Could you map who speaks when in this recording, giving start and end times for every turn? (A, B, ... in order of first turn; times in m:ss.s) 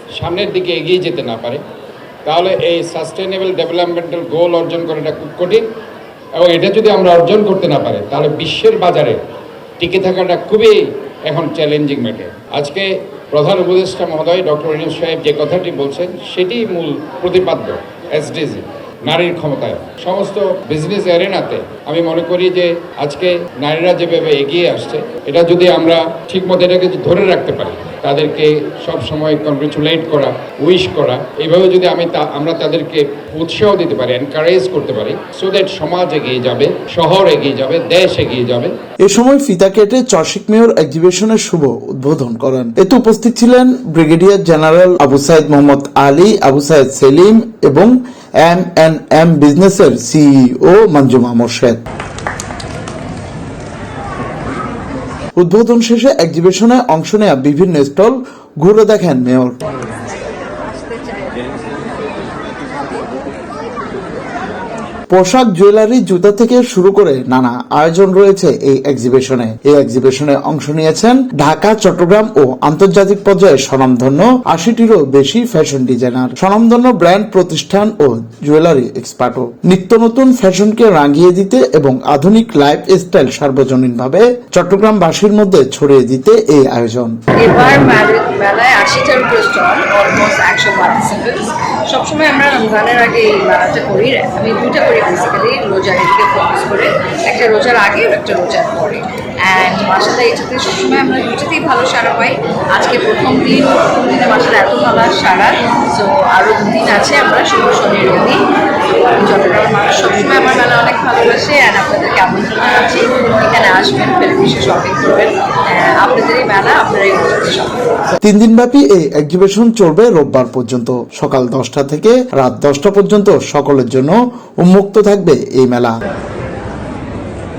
0:00.2-0:01.6 A
0:02.2-0:05.6 A
0:06.4-0:09.2 A
0:09.8-0:38.7 A
0:39.0-0:51.8 B
0:55.4-0:59.6 B
1:00.8-1:01.5 C
1:05.1-1:27.2 B
1:27.3-1:48.4 C
1:49.0-1:57.9 C
1:58.2-2:05.9 B